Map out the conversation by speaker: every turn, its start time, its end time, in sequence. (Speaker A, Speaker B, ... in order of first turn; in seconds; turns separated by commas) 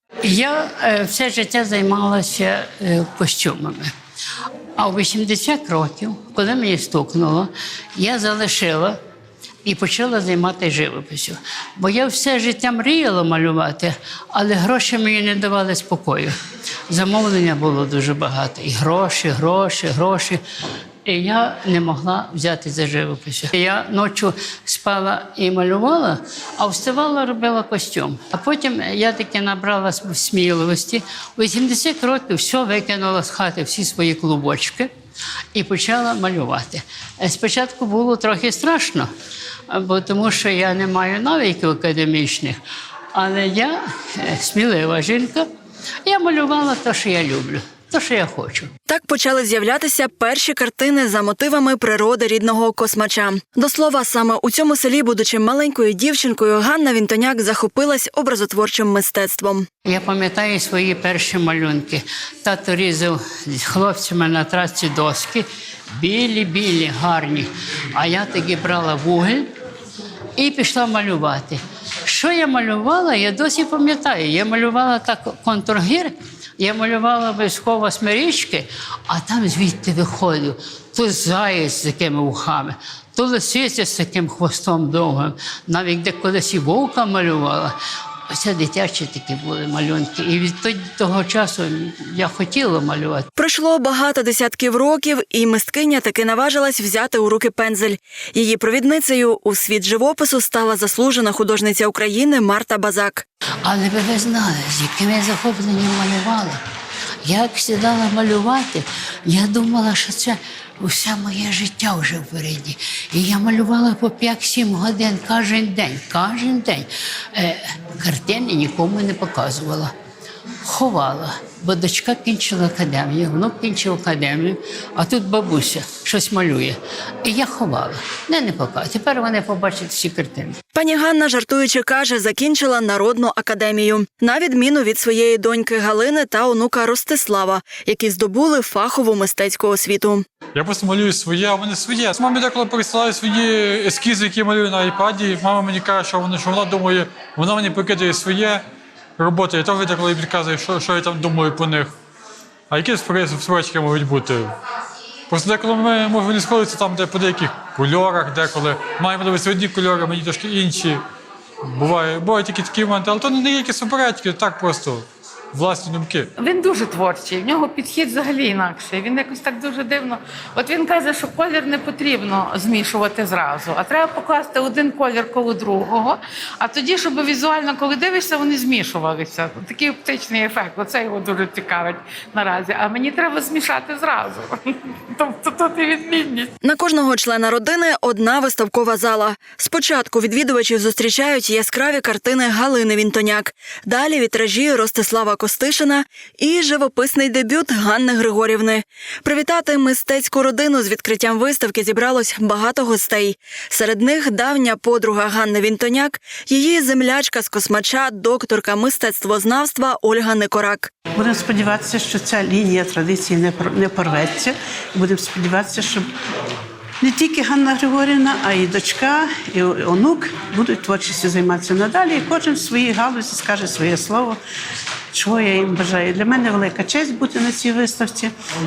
Speaker A: 0.2-3.9, Speaker A: 4.8-9.0, Speaker A: 9.6-16.3, Speaker A: 16.9-20.4, Speaker A: 21.0-34.9, Speaker A: 35.5-39.1, Speaker A: 39.7-42.6, Speaker A: 43.1-45.5, Speaker A: 46.0-48.7, Speaker B: 48.9-59.6, Speaker A: 59.9-69.5, Speaker A: 70.3-87.7, Speaker A: 88.3-93.3, Speaker B: 93.4-103.2, Speaker A: 103.6-106.6, Speaker A: 107.2-119.9, Speaker A: 120.6-130.6, Speaker B: 130.7-140.2, Speaker C: 140.5-148.6, Speaker C: 149.2-151.9, Speaker C: 152.7-154.5, Speaker C: 155.3-161.0, Speaker C: 161.7-166.3, Speaker D: 166.4-186.5, Speaker B: 186.6-210.9, Speaker E: 211.2-216.1, Speaker E: 217.0-224.4, Speaker E: 225.1-228.3